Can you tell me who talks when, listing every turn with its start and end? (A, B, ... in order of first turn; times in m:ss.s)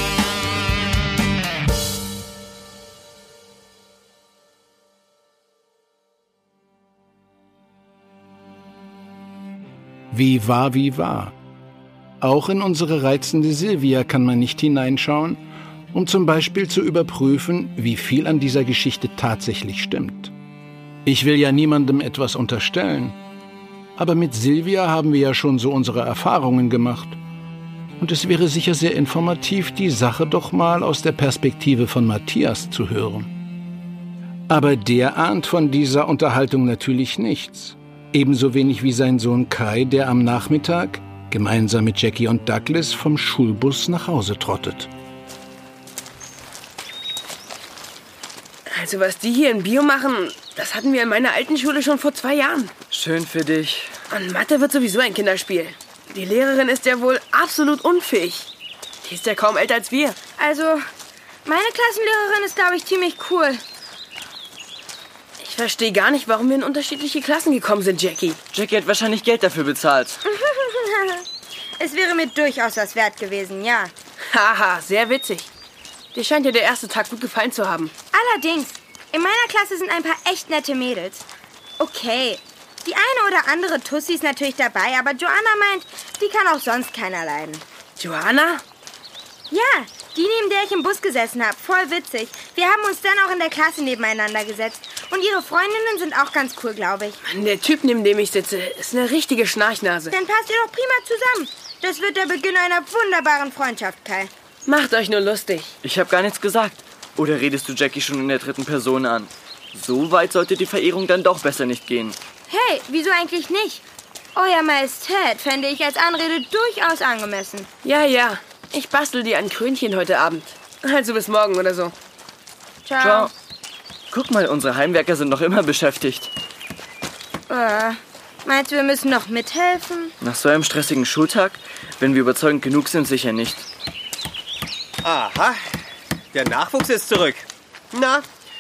0:10.1-0:11.3 A
0:12.2-0:15.4 A
0:15.9-0:20.3 A
0:21.1-0:23.2 A
0:24.0-0:27.2 A
0:28.0-0:33.3 A
0:34.5-0:44.9 A
0:48.7-0:52.7 B
0:52.9-0:53.9 C
0:54.1-0:58.5 B
0:59.0-1:00.2 B
1:00.3-1:00.9 D
1:01.4-1:03.6 D
1:05.4-1:08.4 B
1:08.5-1:10.2 C
1:10.2-1:11.2 D
1:11.8-1:13.9 D
1:14.3-1:15.5 B
1:16.1-1:17.9 B
1:18.1-1:21.2 D
1:21.8-1:27.6 D
1:28.0-1:28.6 B
1:29.5-1:37.2 D
1:37.3-1:40.1 B
1:40.1-1:44.3 D
1:44.7-1:45.7 B
1:45.8-1:52.2 C
1:52.5-1:53.8 D
1:54.4-1:57.7 D
1:57.8-2:01.9 B
2:02.8-2:03.3 D
2:04.1-2:06.3 C
2:07.5-2:10.2 D
2:10.3-2:13.6 C
2:15.0-2:15.6 E
2:16.3-2:18.3 E